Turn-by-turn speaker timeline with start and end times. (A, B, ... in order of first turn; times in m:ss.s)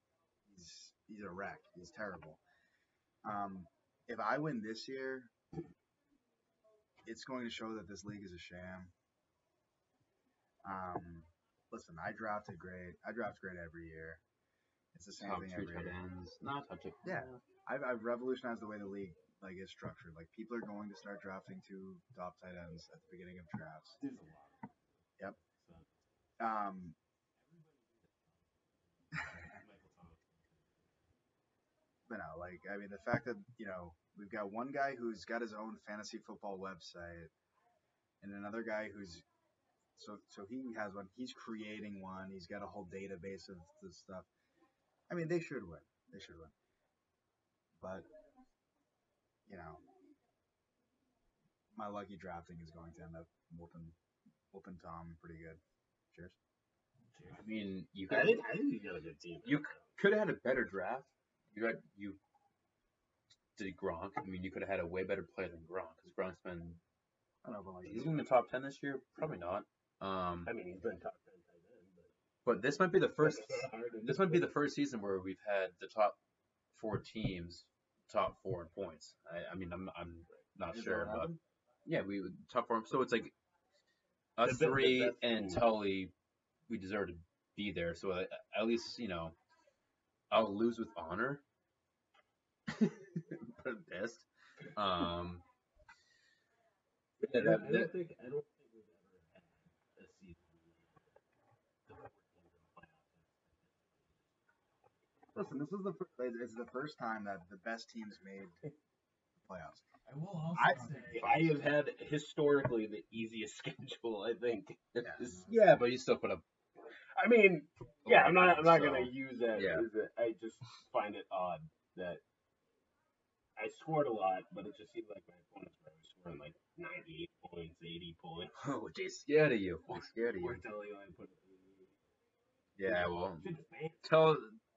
0:00.5-0:02.4 A
0:03.2-0:05.3 A
0:07.0-0:08.9 A
0:10.6-0:14.2 A
0:14.9-0:16.0 A
0:15.2-0:17.4 B
0:17.0-0:24.0 A
0:24.0-0:26.0 C
0:26.4-0:27.0 A
0:27.4-0:31.1 C
0:32.1-0:37.3 A
0:38.2-0:39.2 A
0:40.0-0:44.3 A
0:45.1-0:46.5 A
0:47.8-0:48.1 A
0:49.5-0:49.8 A
0:51.7-0:54.0 A
0:54.5-0:55.6 A
0:57.1-0:59.9 C
0:57.4-0:58.4 B
0:59.4-1:02.2 B
1:03.6-1:06.8 B
1:07.4-1:08.3 A
1:07.8-1:10.5 B
1:10.4-1:12.1 C
1:12.4-1:16.2 B
1:13.2-1:14.5 C
1:16.7-1:23.3 B
1:20.7-1:21.4 A
1:24.4-1:26.1 B
1:24.4-1:25.7 C
1:26.7-1:29.4 B
1:30.3-1:31.4 B
1:32.7-1:35.4 B
1:37.2-1:41.2 C
1:37.2-1:37.9 B
1:41.9-1:44.3 C
1:45.3-1:48.5 A
1:49.4-1:49.9 A
1:50.2-1:55.5 C
1:51.1-1:51.6 B
1:55.0-1:56.4 B
1:55.1-1:55.5 A
1:57.2-2:02.2 C
1:58.0-1:59.9 B
2:03.6-2:08.5 C
2:08.6-2:10.6 B
2:10.4-2:12.0 C
2:12.8-2:13.5 B
2:13.4-2:14.2 C
2:14.0-2:14.6 B